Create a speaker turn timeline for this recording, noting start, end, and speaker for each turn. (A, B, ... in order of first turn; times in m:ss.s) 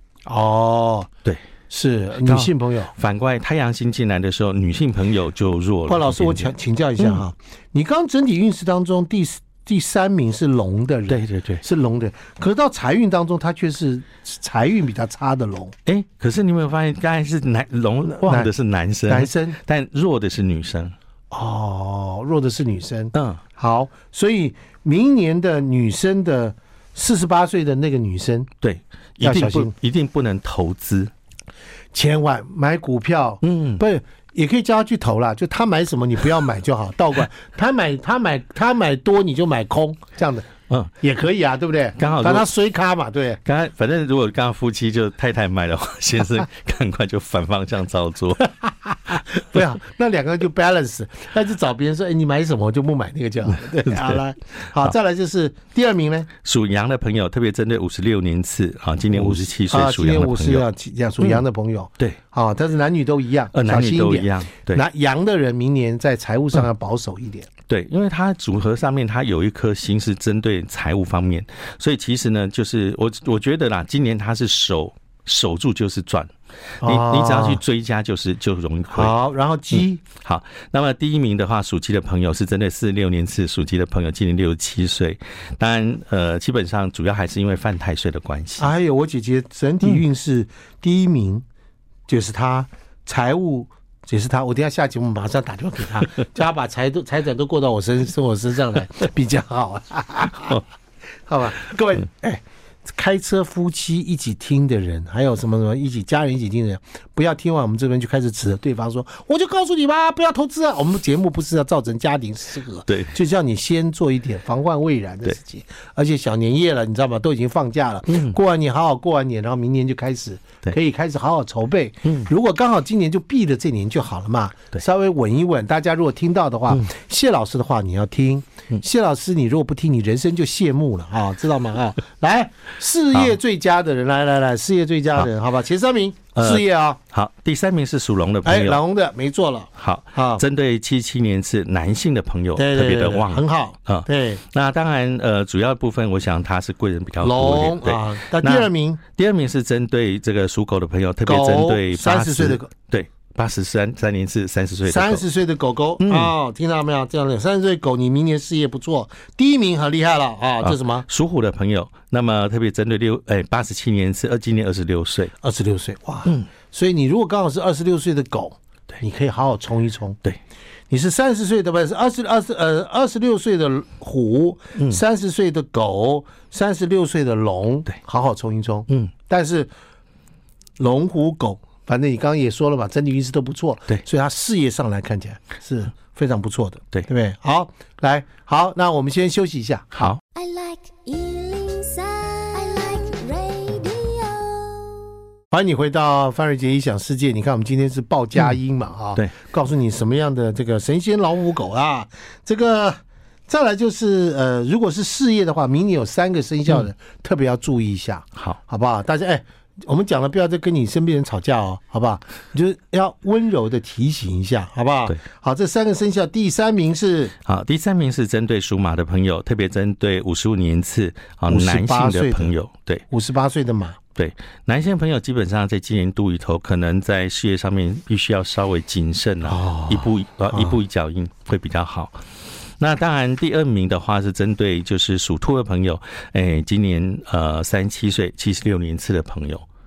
0:00.3-0:01.1 A
0:01.7-0:02.9 A
0:02.2-0:07.2 B
0:05.9-0:15.8 A
0:11.1-0:11.6 B
0:15.9-0:21.0 B
0:18.2-0:18.5 A
0:19.1-0:19.6 A
0:21.3-0:28.5 A
0:23.1-0:23.4 B
0:28.6-0:31.1 B
0:29.2-0:29.7 A
0:31.9-0:40.5 A
0:33.4-0:33.8 B
0:41.0-0:43.4 A
0:42.0-0:42.5 B
0:43.4-0:48.5 B
0:48.7-0:56.3 A
0:53.8-0:54.2 B
0:56.4-1:00.7 B
0:59.1-1:07.5 A
1:03.5-1:04.8 B
1:07.7-1:19.1 B
1:16.8-1:17.6 A
1:18.9-1:20.0 A
1:19.8-1:28.7 B
1:28.6-1:31.4 A
1:32.1-1:40.6 A
1:41.3-2:17.0 A
1:52.9-1:53.1 B
1:58.1-1:58.4 B
2:16.4-2:18.8 B
2:18.4-2:20.4 A
2:19.8-2:35.2 B
2:22.6-2:24.4 A
2:27.2-2:29.0 A
2:31.2-2:32.7 A
2:34.9-2:41.0 A
2:36.0-2:36.3 B
2:40.6-2:45.3 B
2:45.4-2:50.2 A
2:50.9-2:59.7 A
3:00.8-3:10.1 A
3:10.0-3:10.2 B
3:10.3-3:15.1 C
3:15.5-3:37.3 A
3:37.4-3:43.0 B
3:41.5-3:42.5 A
3:43.1-3:44.0 A
3:44.2-3:52.2 B
3:49.4-3:50.8 A
3:52.8-3:59.6 B